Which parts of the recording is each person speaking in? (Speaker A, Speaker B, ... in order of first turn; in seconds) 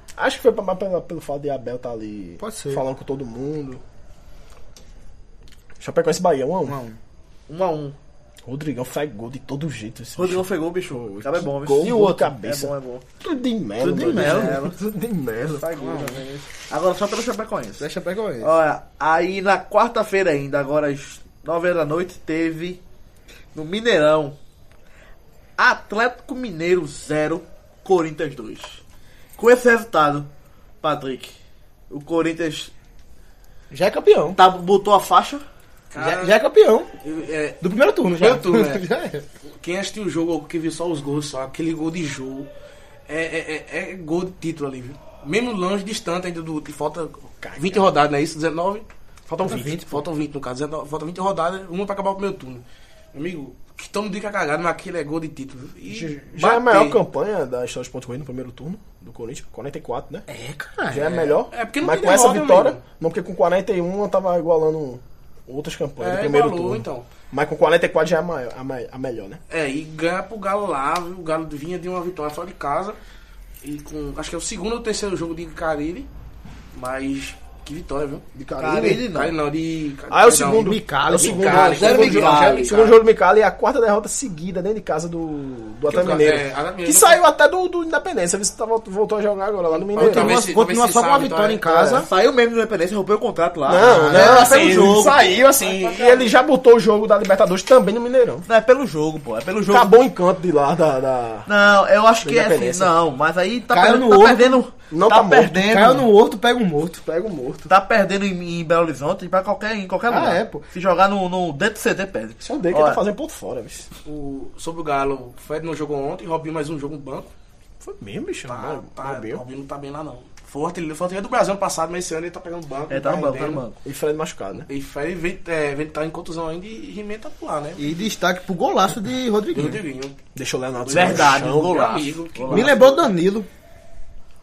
Speaker A: 0.1-3.8, 5.8-6.8, 8.4-15.9, 47.4-47.8, 55.9-60.2, 60.9-69.4, 80.1-90.4, 91.7-92.0, 93.7-98.5, 99.7-101.5, 102.2-103.0, 104.9-105.9, 107.0-107.7, 112.4-113.9, 117.8-119.4, 123.8-124.7, 130.3-132.0
Speaker B: 2.4-2.8, 6.6-7.0, 13.8-14.6, 15.8-16.2, 17.8-18.5, 33.7-34.4, 36.0-36.9, 37.6-39.2, 49.4-50.0, 60.3-61.4, 80.5-82.3, 90.0-92.1, 93.7-95.2, 103.7-104.6, 105.6-107.0, 110.1-110.6, 127.8-129.8, 132.5-133.5
Speaker C: 7.5-8.0, 10.2-13.0, 13.8-14.8, 15.6-17.9, 18.4-22.8, 23.5-24.4, 25.6-28.8, 29.4-30.3, 30.8-31.3, 31.9-32.7, 34.3-35.4, 78.5-79.3, 81.6-82.7, 91.9-95.3, 98.5-99.9, 101.5-106.1, 107.7-113.0, 122.9-123.8, 130.9-132.8
Speaker D: 35.9-36.4, 37.0-38.9, 39.6-42.5, 43.1-57.0, 61.5-62.8, 66.0-67.1, 69.5-73.0, 73.6-76.1, 76.7-82.9, 85.8-87.2, 89.7-91.7, 95.3-96.3, 114.0-117.3, 118.5-123.6, 124.7-128.1, 129.5-130.2, 130.8-133.0